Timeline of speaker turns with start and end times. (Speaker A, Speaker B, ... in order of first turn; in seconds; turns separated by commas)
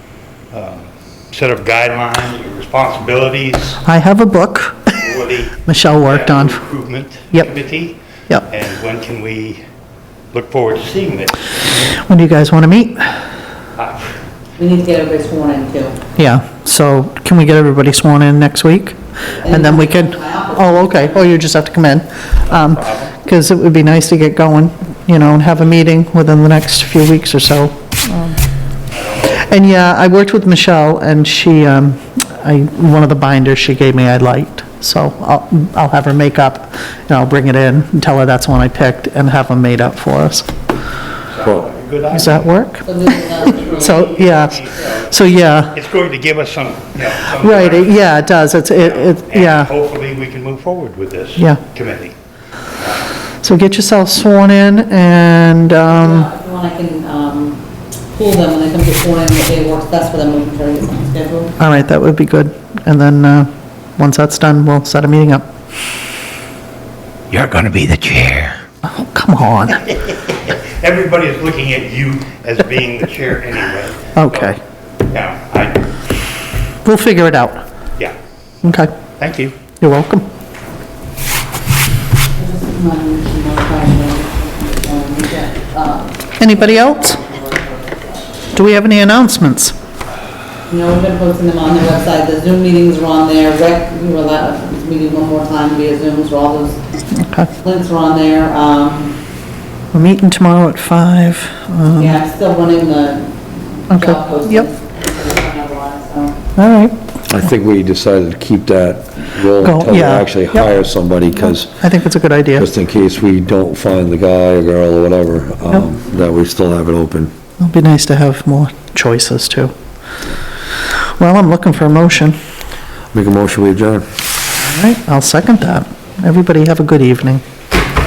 Speaker A: 0.5-3.8, Speaker B: 3.8-5.1, Speaker A: 5.0-9.6, Speaker B: 5.7-6.6, Speaker A: 10.3-11.5, Speaker B: 11.9-13.1, Speaker A: 13.8-14.2, Speaker C: 14.6-16.0, Speaker B: 16.2-28.4, Speaker C: 19.4-21.4, Speaker A: 22.6-23.1, Speaker A: 28.9-29.5, Speaker B: 29.4-40.5, Speaker A: 41.3-42.5, Speaker B: 42.1-42.9, Speaker C: 42.8-44.2, Speaker A: 43.3-45.1, Speaker B: 43.7-45.7, Speaker A: 45.7-48.0, Speaker B: 47.4-49.7, Speaker A: 48.8-52.1, Speaker A: 52.8-53.1, Speaker B: 53.4-56.3, Speaker C: 55.9-57.6, Speaker C: 58.1-61.5, Speaker B: 61.6-65.5, Speaker A: 67.3-68.6, Speaker B: 68.8-69.8, Speaker A: 69.9-74.5, Speaker B: 74.2-74.6, Speaker A: 75.1-76.0, Speaker B: 76.8-77.6, Speaker B: 78.6-78.9, Speaker A: 79.2-79.5, Speaker B: 79.8-80.3, Speaker C: 82.3-88.4, Speaker B: 86.4-87.2, Speaker B: 88.5-89.7, Speaker C: 90.7-96.8, Speaker B: 97.1-97.5, Speaker C: 97.5-99.2, Speaker B: 99.9-102.2, Speaker C: 101.9-106.4, Speaker B: 103.9-104.7, Speaker B: 106.5-107.0, Speaker D: 107.3-111.8, Speaker B: 109.6-110.7, Speaker B: 111.3-112.7, Speaker D: 112.5-117.3, Speaker B: 117.6-119.7, Speaker B: 120.9-122.3, Speaker D: 123.1-124.0, Speaker B: 124.6-127.4